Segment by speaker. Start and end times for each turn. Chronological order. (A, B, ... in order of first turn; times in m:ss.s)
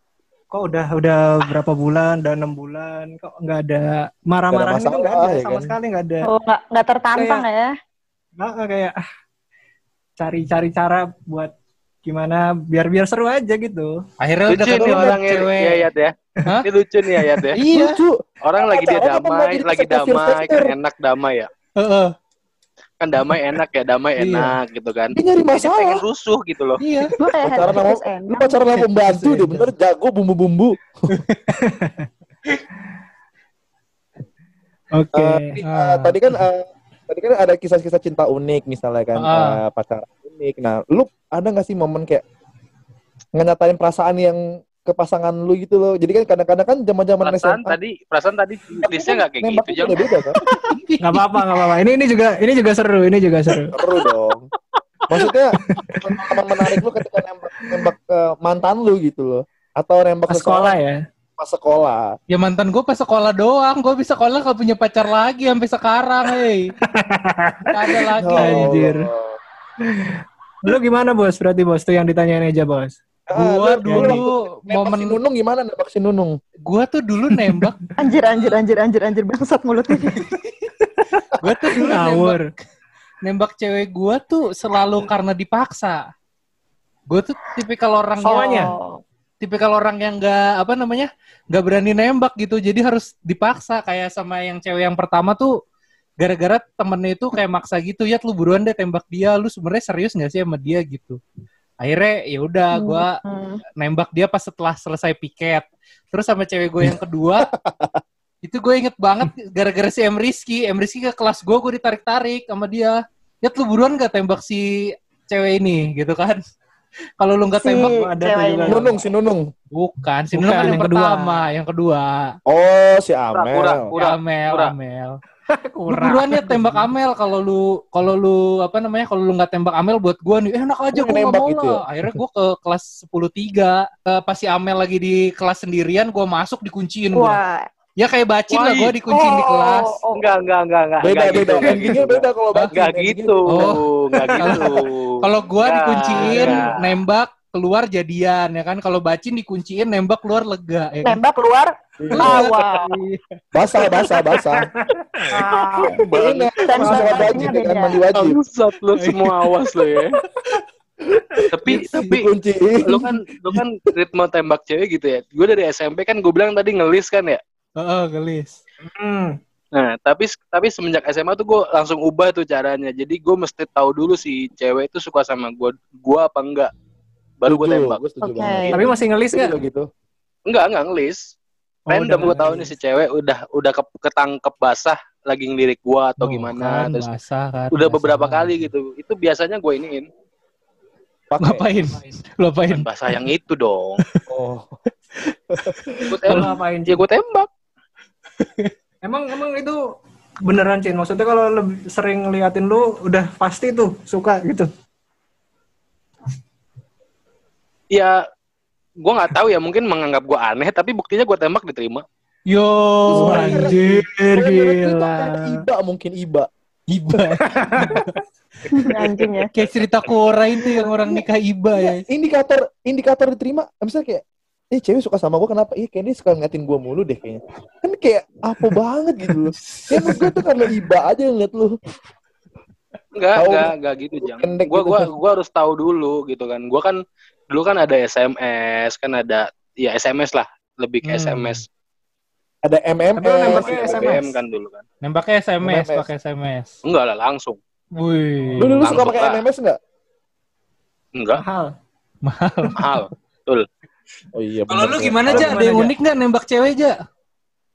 0:00.5-0:06.3 A
0:04.5-0:05.7 B
0:06.3-0:07.7 C
0:07.1-0:07.4 A
0:08.4-0:09.0 A
0:10.2-0:11.5 A
0:12.0-0:14.0 A
0:14.2-0:15.8 D
0:14.5-0:17.6 E
0:14.8-0:15.1 B
0:17.5-0:18.0 D
0:17.7-0:20.7 B
0:18.4-0:21.5 E
0:21.8-0:22.1 D
0:23.0-0:26.8 E
0:24.2-0:24.5 D
0:25.1-0:26.0 B
0:26.8-0:27.1 D
0:27.2-0:28.6 C
0:27.4-0:30.8 B
0:28.9-0:29.6 A
0:31.1-0:31.4 D
0:31.5-0:32.1 A
0:34.9-0:35.6 A
0:35.1-0:42.2 B
0:35.6-0:36.2 D
0:39.2-0:39.6 D
0:43.4-0:47.8 B
0:47.2-0:50.0 E
0:48.8-0:50.4 B
0:50.4-0:51.7 D
0:51.0-0:53.7 A
0:53.7-0:54.5 B
0:55.1-1:00.8 B
0:55.6-0:56.8 A
1:00.3-1:01.0 A
1:01.4-1:02.1 B
1:02.3-1:06.7 D
1:06.9-1:09.1 A
1:07.7-1:08.8 D
1:08.2-1:09.4 B
1:09.8-1:13.0 A
1:13.3-1:16.4 B
1:13.3-1:15.2 D
1:13.8-1:14.2 A
1:16.6-1:18.6 D
1:17.4-1:17.9 A
1:18.0-1:20.3 C
1:20.2-1:20.5 D
1:20.8-1:22.5 A
1:21.4-1:22.6 D
1:23.2-1:26.0 D
1:27.1-1:28.7 D
1:28.2-1:28.7 A
1:28.2-1:29.0 C
1:29.4-1:35.5 D
1:36.2-1:41.2 D
1:41.8-1:43.2 D
1:42.7-1:43.6 C
1:43.8-1:47.5 D
1:46.8-1:48.0 B
1:48.4-1:56.4 D
1:57.2-1:58.0 D
1:57.6-1:58.8 C
1:57.8-1:59.0 A
1:58.7-1:59.5 B
1:59.7-2:02.4 D
2:00.3-2:01.4 A
2:02.5-2:03.9 B
2:03.3-2:04.7 E
2:04.0-2:05.2 D
2:05.5-2:06.9 A
2:05.9-2:17.4 D
2:10.9-2:11.8 B
2:17.2-2:17.6 C
2:18.0-2:20.0 D
2:18.5-2:18.9 E
2:19.1-2:20.3 C
2:20.1-2:27.0 E
2:21.0-2:23.7 B
2:23.5-2:23.8 D
2:24.2-2:24.8 A
2:24.4-2:31.2 D
2:26.2-2:26.7 A
2:31.0-2:32.9 C
2:32.0-2:32.5 B
2:32.2-2:33.2 A
2:33.5-2:34.7 B
2:33.8-2:35.4 A
2:35.3-2:36.0 C
2:35.9-2:36.5 E
2:36.1-2:38.4 B
2:36.7-2:38.0 C
2:36.8-2:37.5 A
2:38.1-2:40.2 E
2:39.0-2:39.5 D
2:41.5-2:42.3 E
2:41.6-2:43.2 B
2:42.8-2:47.4 E
2:47.8-2:48.6 D
2:48.8-2:49.4 A
2:49.7-2:56.7 E
2:57.4-2:58.0 E
2:57.5-2:59.9 B
2:58.2-2:58.8 C
2:58.7-2:59.6 A
3:00.5-3:01.2 E
3:01.9-3:02.7 A
3:01.9-3:07.1 E
3:06.2-3:08.5 D
3:07.7-3:10.1 E
3:11.3-3:11.6 B
3:11.4-3:13.2 D
3:12.7-3:14.0 E
3:14.3-3:14.8 B
3:15.2-3:16.5 D
3:15.5-3:16.0 B
3:16.1-3:17.5 E
3:16.2-3:17.0 A
3:18.4-3:18.7 D
3:19.0-3:19.8 A
3:20.4-3:24.7 A
3:27.9-3:28.2 E
3:29.0-3:32.0 E
3:32.5-3:34.0 D
3:33.1-3:33.8 B
3:33.1-3:35.6 A
3:34.3-3:36.5 B
3:36.9-3:38.2 D
3:37.4-3:38.1 A
3:38.7-3:39.5 C
3:39.5-3:42.0 D
3:40.7-3:41.2 B
3:41.8-3:44.2 B
3:44.7-3:51.8 B
3:49.8-3:50.3 D
3:53.1-4:01.7 E
3:53.4-3:53.7 B
3:54.2-3:55.0 B
4:01.0-4:01.6 D
4:02.6-4:04.2 B
4:03.2-4:04.3 A
4:03.4-4:04.8 E
4:05.0-4:06.8 D
4:05.6-4:06.1 B
4:06.8-4:07.6 E
4:08.0-4:08.9 D
4:08.6-4:09.8 B
4:08.8-4:09.4 E
4:11.2-4:11.4 E
4:11.4-4:11.7 A
4:12.2-4:12.8 D
4:12.7-4:13.6 E
4:14.3-4:15.7 B
4:14.7-4:17.0 D
4:15.3-4:15.9 A